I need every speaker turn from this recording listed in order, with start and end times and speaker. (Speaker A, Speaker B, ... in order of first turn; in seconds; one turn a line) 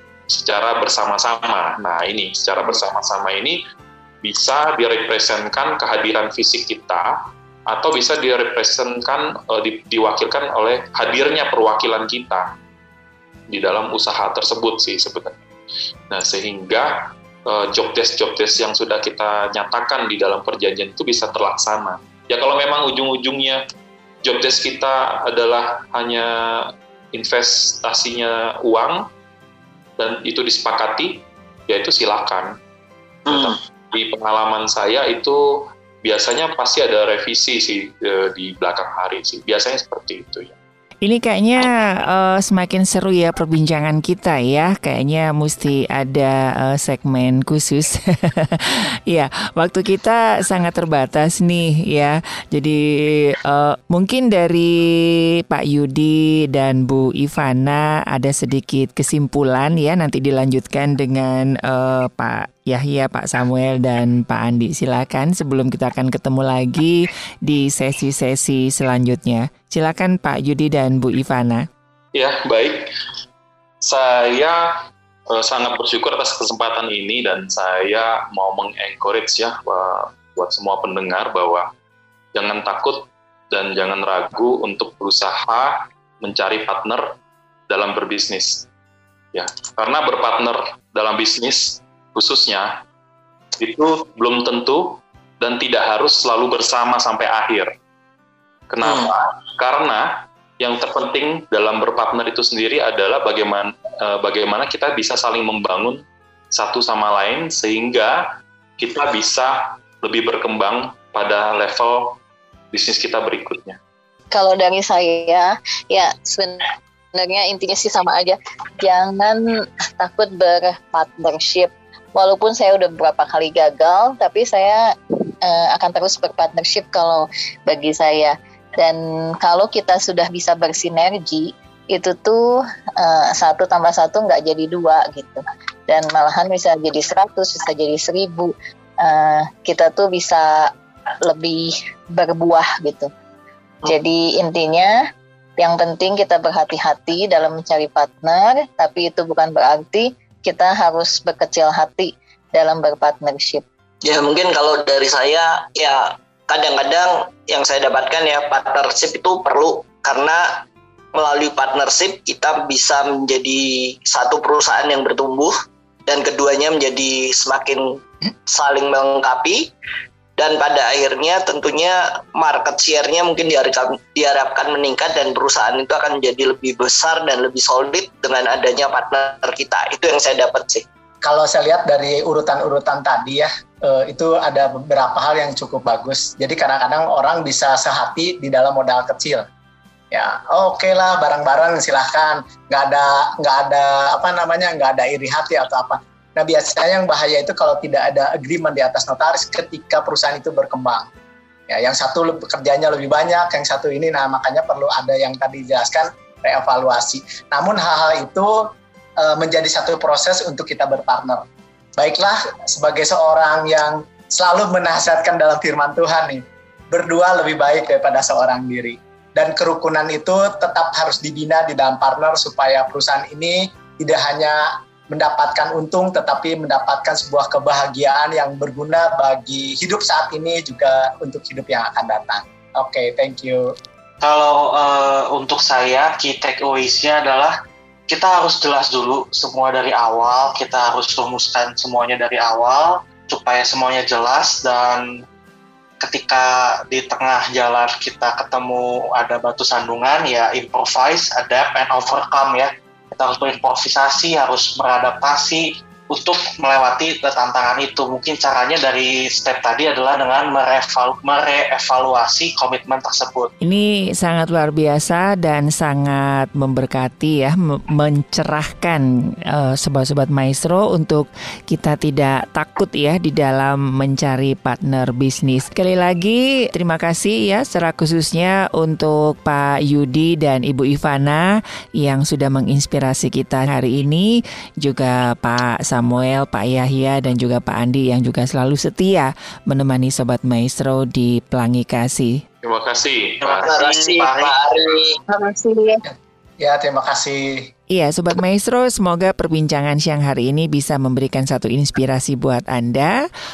Speaker A: 0.3-3.6
Speaker A: 4.2-7.1
Speaker A: 7.7-12.5
Speaker A: 13.5-15.4
Speaker A: 16.1-23.6
Speaker A: 24.2-29.1
Speaker A: 30.0-32.6
Speaker A: 33.3-40.5
Speaker B: 33.3-33.6
Speaker C: 41.0-52.8
Speaker C: 53.4-54.9
Speaker C: 55.5-71.7
Speaker A: 72.2-72.9
Speaker A: 73.8-74.7
Speaker A: 75.3-81.7
Speaker A: 82.3-87.0
Speaker A: 87.7-88.7
Speaker A: 89.3-92.8
Speaker A: 93.6-97.7
Speaker A: 98.7-108.2
Speaker B: 98.8-99.1
Speaker A: 108.8-112.2
Speaker A: 112.7-113.8
Speaker D: 114.3-119.4
Speaker D: 120.0-124.8
Speaker D: 125.4-132.4
Speaker D: 133.0-140.7
Speaker D: 141.3-143.1
Speaker D: 143.9-144.9
Speaker D: 145.6-153.6
Speaker B: 154.0-165.5
Speaker B: 166.1-169.7
Speaker B: 170.4-180.8
Speaker E: 181.2-189.5
Speaker E: 190.1-201.1
Speaker E: 201.7-208.6
Speaker E: 209.2-211.4
Speaker E: 212.0-233.7
Speaker F: 234.2-237.6
Speaker F: 238.1-245.1
Speaker F: 246.0-263.5
Speaker C: 263.6-281.4
Speaker C: 282.0-284.3
Speaker C: 284.8-292.4
Speaker A: 292.6-293.7
Speaker F: 293.5-294.8
Speaker B: 293.6-295.2
Speaker D: 295.3-296.0
Speaker E: 296.1-297.7
Speaker C: 297.9-303.2